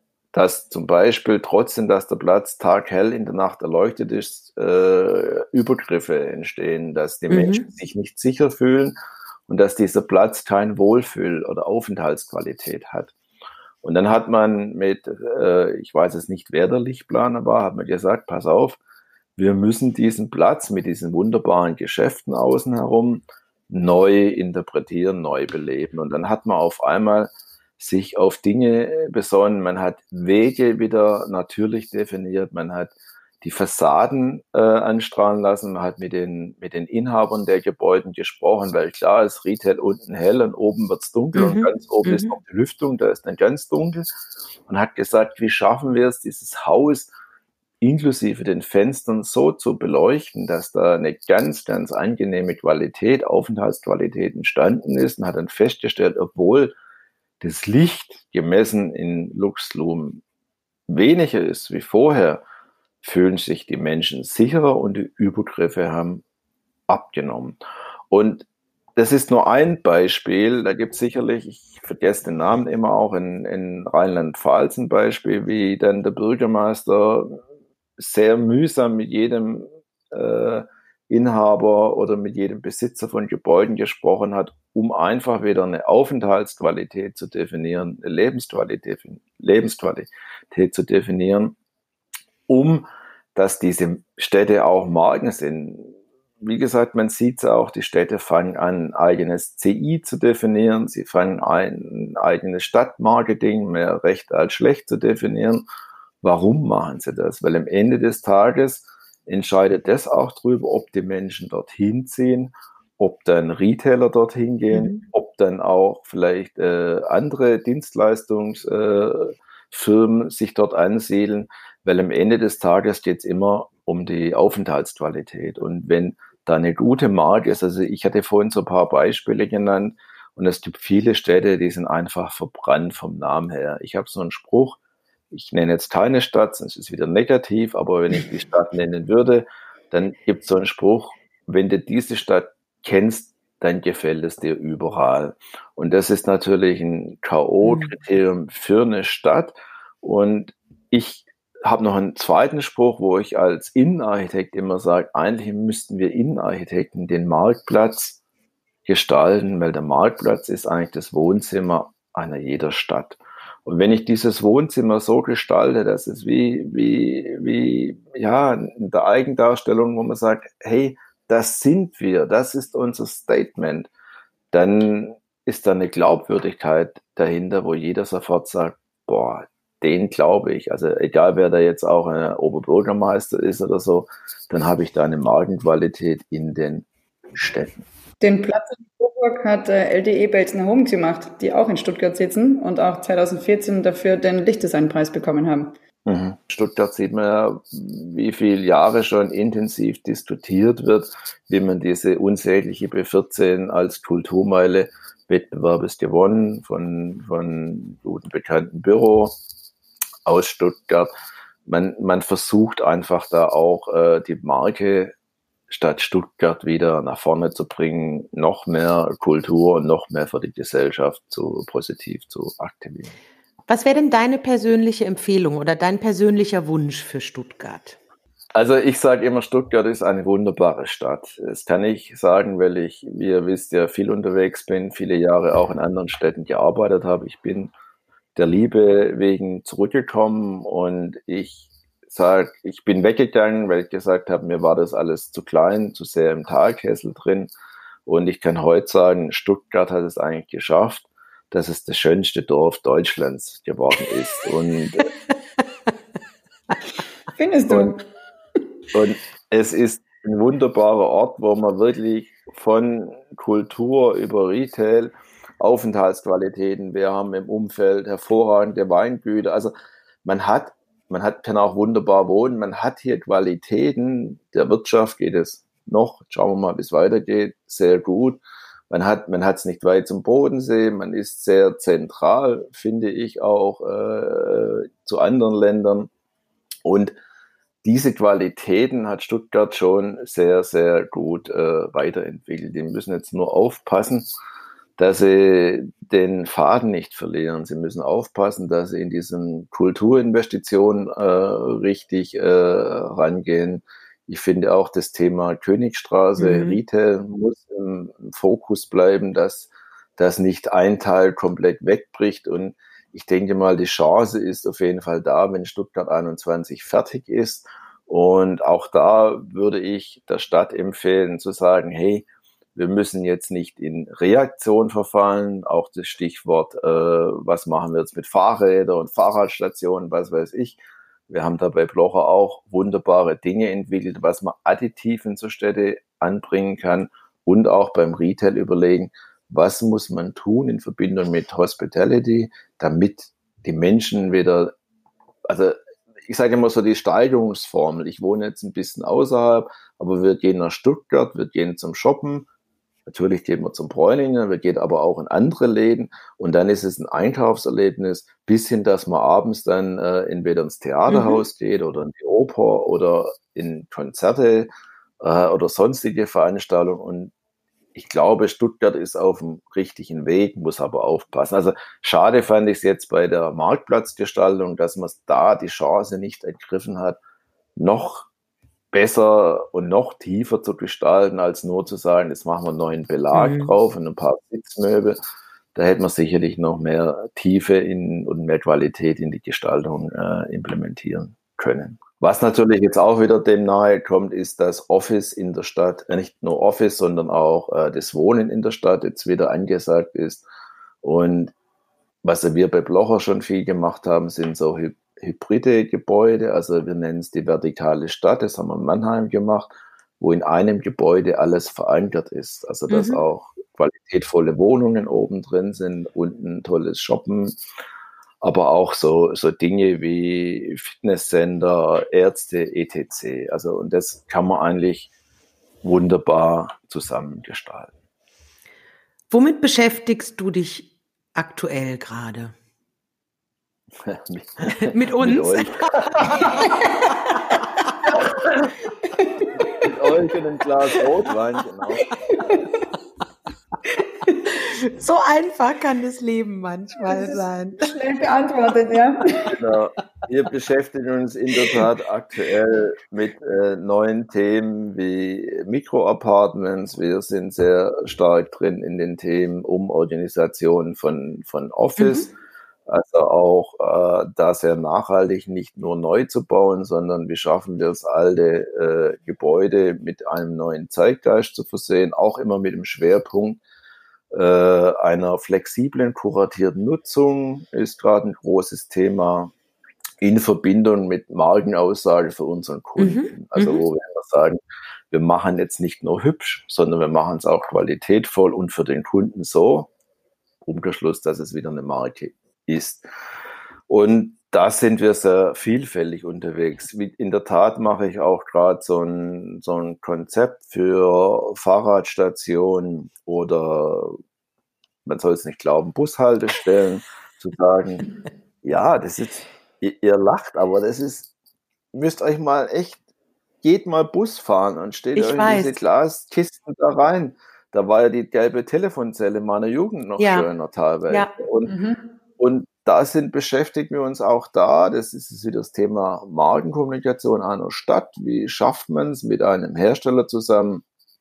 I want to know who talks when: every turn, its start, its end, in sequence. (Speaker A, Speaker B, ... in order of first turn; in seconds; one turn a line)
Speaker A: 0.3-8.9
Speaker B: 7.3-7.7
Speaker A: 9.5-13.1
Speaker A: 13.8-18.8
Speaker A: 19.4-44.1
Speaker B: 41.4-42.4
Speaker A: 44.7-47.1
Speaker A: 47.8-56.8
Speaker A: 57.4-60.2
Speaker A: 60.9-62.4
Speaker A: 63.0-66.2
Speaker A: 66.9-67.6
Speaker A: 68.1-77.4
Speaker A: 78.0-91.6
Speaker A: 92.5-105.7
Speaker A: 106.2-134.8
Speaker B: 114.7-115.0
Speaker A: 135.3-158.2
Speaker B: 147.6-147.9
Speaker A: 158.9-173.9
Speaker A: 174.5-187.9
Speaker C: 188.2-195.8
Speaker A: 196.1-209.4
Speaker A: 210.2-211.1
Speaker A: 211.7-215.1
Speaker A: 215.7-223.2
Speaker B: 223.7-228.0
Speaker A: 228.6-237.7
Speaker A: 238.4-247.5
Speaker A: 248.1-255.1
Speaker C: 257.3-258.0
Speaker A: 257.7-257.9
Speaker A: 258.9-269.7
Speaker A: 270.2-286.1
Speaker A: 286.9-287.2
Speaker A: 287.8-294.3
Speaker A: 295.0-344.7
Speaker B: 306.4-306.8
Speaker A: 345.5-352.5
Speaker A: 353.1-367.3
Speaker B: 361.1-361.4
Speaker A: 367.9-377.2
Speaker A: 377.8-378.3
Speaker A: 378.9-385.2
Speaker B: 383.3-383.7
Speaker A: 385.8-400.4
Speaker A: 401.0-401.5
Speaker A: 402.2-409.7
Speaker A: 410.2-417.6
Speaker B: 412.9-413.2
Speaker A: 418.4-425.1
Speaker A: 425.8-427.9
Speaker B: 429.3-432.6
Speaker A: 434.0-436.4
Speaker B: 434.8-438.2
Speaker A: 438.3-438.7
Speaker C: 439.4-439.9
Speaker A: 439.8-442.1
Speaker C: 442.3-442.7
Speaker B: 442.4-442.6
Speaker B: 444.5-447.9
Speaker C: 447.1-449.6
Speaker A: 449.5-462.3
Speaker B: 462.0-462.3
Speaker A: 462.9-473.6
Speaker A: 474.3-479.5
Speaker A: 480.2-484.6
Speaker B: 483.0-483.8
Speaker A: 485.1-489.9
Speaker A: 490.6-493.1
Speaker A: 493.9-504.1
Speaker A: 505.1-508.1
Speaker A: 508.6-511.3
Speaker A: 511.9-513.0
Speaker A: 513.6-521.7
Speaker B: 515.1-515.8
Speaker B: 520.2-520.5
Speaker C: 521.7-522.1
Speaker A: 522.4-530.8